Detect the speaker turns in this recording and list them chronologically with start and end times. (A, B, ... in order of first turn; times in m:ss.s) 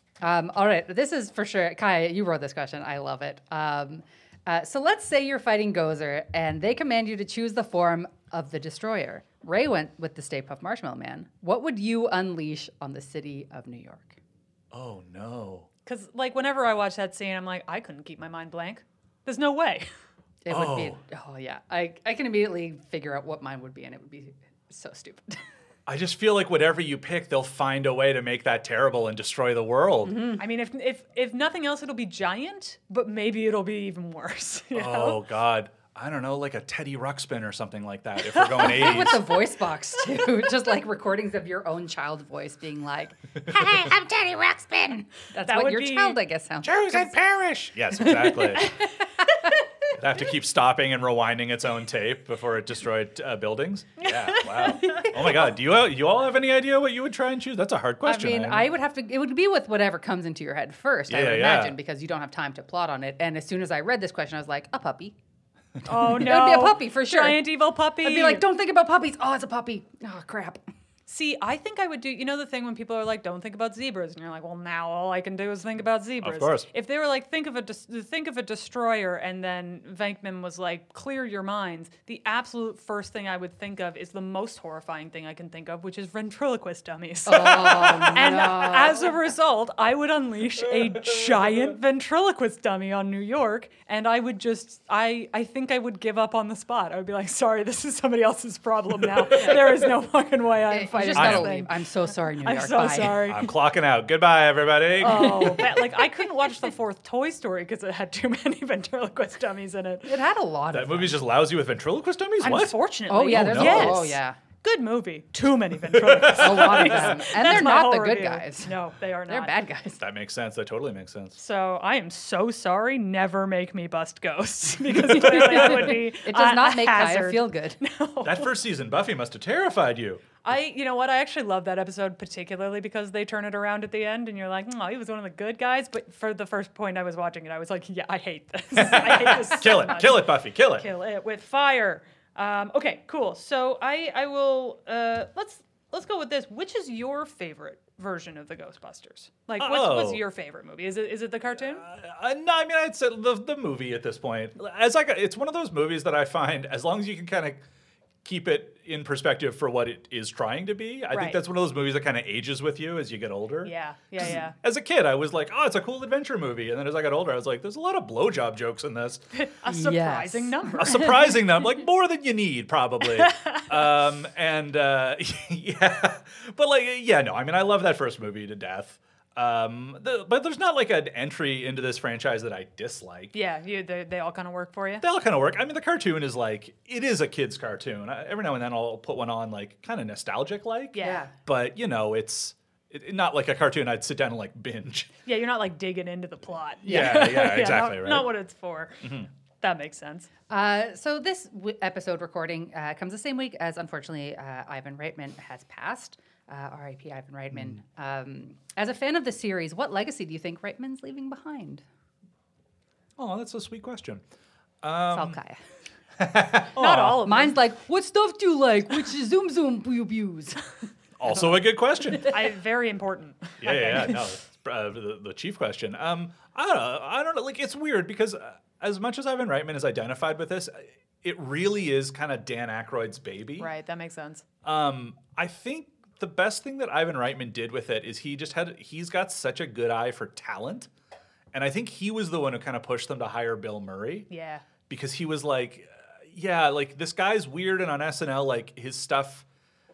0:00.2-0:14.2 A
0:14.7-0:15.7 B
0:15.9-0:19.9 C
0:20.4-0:25.4 A
0:20.5-0:21.0 B
0:25.9-0:30.3 B
0:30.0-0:30.4 A
0:30.4-0:35.2 C
0:34.7-0:39.3 B
0:38.3-0:39.2 C
0:38.6-0:47.2 A
0:45.4-0:46.2 C
0:46.6-0:48.7 B
0:48.0-0:48.9 A
0:50.0-0:58.7 B
0:54.0-0:55.2 C
0:54.8-0:55.1 A
0:58.0-1:05.2 A
1:01.1-1:01.8 B
1:05.8-1:08.4 C
1:05.9-1:07.5 A
1:08.0-1:10.6 A
1:11.1-1:43.6 C
1:16.2-1:16.7 B
1:27.3-1:29.1 A
1:27.6-1:28.3 B
1:30.8-1:31.5 B
1:39.3-1:39.6 B
1:40.7-1:43.2 A
1:41.1-1:41.5 B
1:43.2-1:45.7 B
1:45.0-1:50.1 C
1:45.0-1:45.8 A
1:50.0-1:51.2 A
1:50.7-1:54.2 B
1:52.4-1:59.5 C
1:53.1-1:54.4 A
1:55.9-1:57.2 B
1:56.3-1:58.7 A
1:59.3-2:00.0 A
2:00.0-2:01.4 B
2:01.4-2:08.5 C
2:05.0-2:07.8 A
2:08.2-2:10.2 B
2:10.4-2:31.8 C
2:18.8-2:20.9 B
2:29.6-2:30.2 B
2:31.6-2:37.6 B
2:38.2-2:49.2 B
2:41.1-2:41.4 C
2:43.6-2:44.6 C
2:49.3-2:51.3 C
2:49.7-2:51.0 A
2:50.8-3:03.3 B
2:53.0-2:53.9 C
3:03.3-3:05.0 C
3:05.0-3:15.1 B
3:10.9-3:11.3 C
3:11.0-3:11.3 A
3:15.3-3:20.3 C
3:16.8-3:18.3 B
3:19.0-3:19.3 B
3:20.5-3:31.8 A
3:33.2-3:34.2 B
3:34.8-3:35.4 B
3:35.1-3:35.6 A
3:36.2-3:37.2 B
3:36.8-3:37.6 C
3:37.2-3:40.6 A
3:41.2-3:42.3 B
3:42.2-3:44.3 C
3:43.6-3:53.7 B
3:53.6-3:54.4 C
3:54.6-4:00.9 B
4:01.5-4:04.3 B
4:04.3-4:04.6 C
4:04.9-4:09.4 B